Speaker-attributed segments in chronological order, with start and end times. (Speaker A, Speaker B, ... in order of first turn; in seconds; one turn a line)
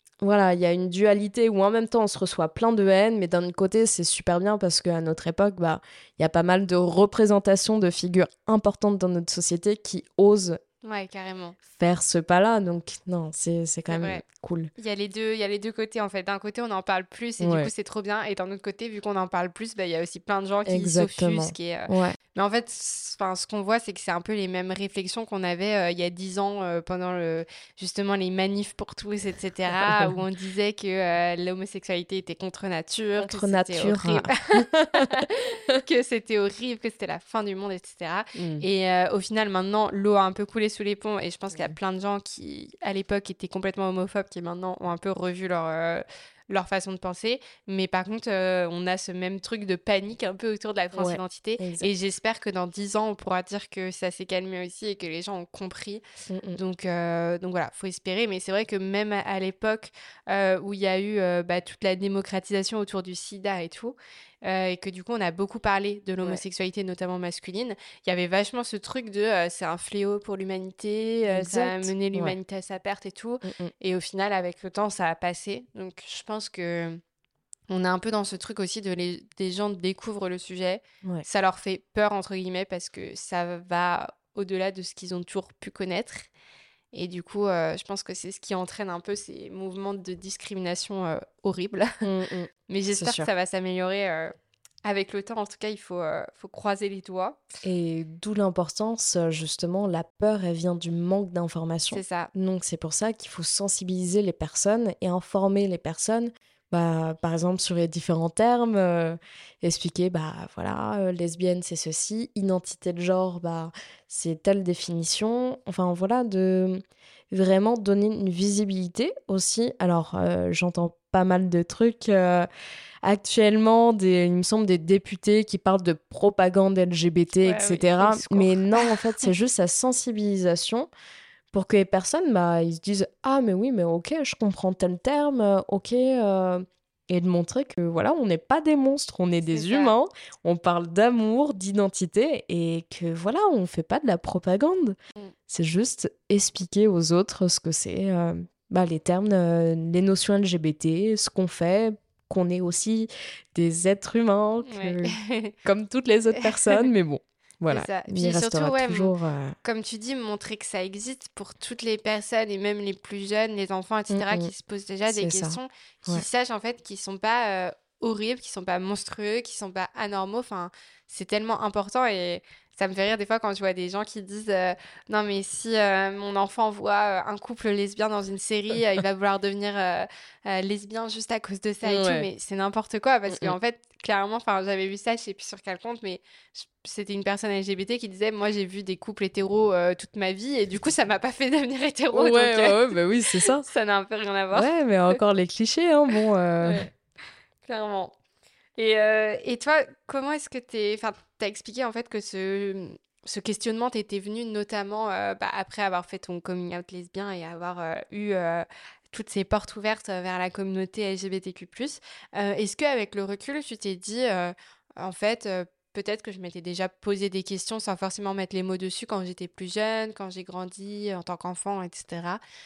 Speaker A: 0.2-10.6
Speaker B: 10.8-11.6
Speaker A: 11.7-14.7
Speaker B: 13.9-14.2
Speaker B: 14.8-56.0
Speaker A: 17.4-17.7
Speaker A: 20.7-22.2
Speaker A: 29.7-30.2
Speaker A: 33.2-35.3
Speaker A: 38.4-38.6
Speaker A: 50.9-51.9
Speaker A: 56.3-56.6
Speaker B: 56.6-77.0
Speaker A: 71.3-72.4
Speaker A: 73.4-73.7
Speaker B: 77.7-86.3
Speaker B: 86.9-92.0
Speaker A: 92.0-93.3
Speaker B: 92.7-97.4
Speaker A: 97.6-122.5
Speaker B: 101.9-102.3
Speaker A: 123.0-130.9
Speaker B: 127.4-129.3
Speaker A: 131.5-145.0
Speaker B: 139.5-139.9
Speaker A: 145.5-159.6
Speaker B: 154.7-155.6
Speaker B: 156.4-156.8
Speaker B: 157.7-159.1
Speaker B: 159.6-195.2
Speaker A: 164.1-164.5
Speaker A: 165.1-166.2
Speaker A: 181.8-182.3
Speaker A: 183.3-183.5
Speaker A: 192.1-193.7
Speaker A: 194.5-196.9
Speaker B: 196.6-196.9
Speaker B: 197.7-198.2
Speaker B: 198.8-222.4